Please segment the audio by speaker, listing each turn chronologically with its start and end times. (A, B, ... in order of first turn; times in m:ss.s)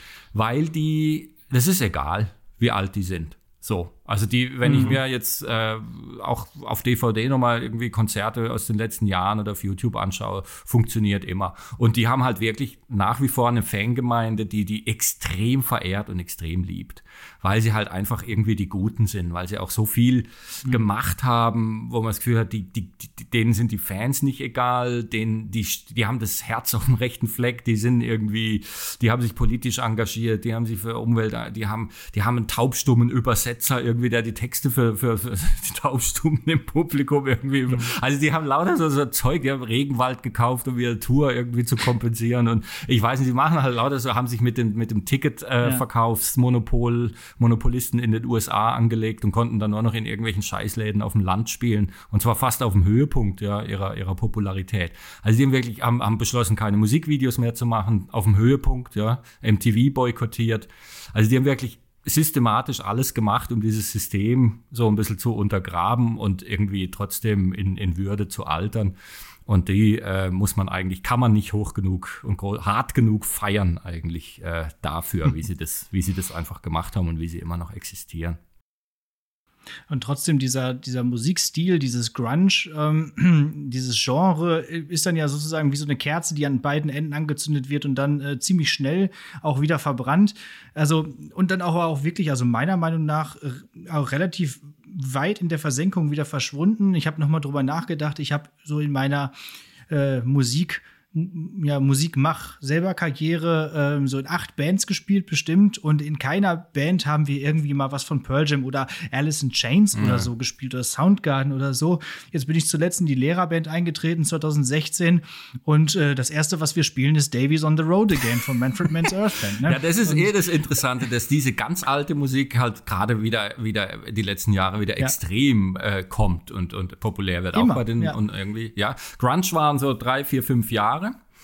0:00.3-1:09.0 A
0:04.6-0:05.0 B
1:09.5-1:18.4 A
1:19.9-1:39.3 B
1:39.9-2:00.3 B
1:50.0-1:50.3 A
1:59.6-2:11.2 A
2:07.5-2:08.2 B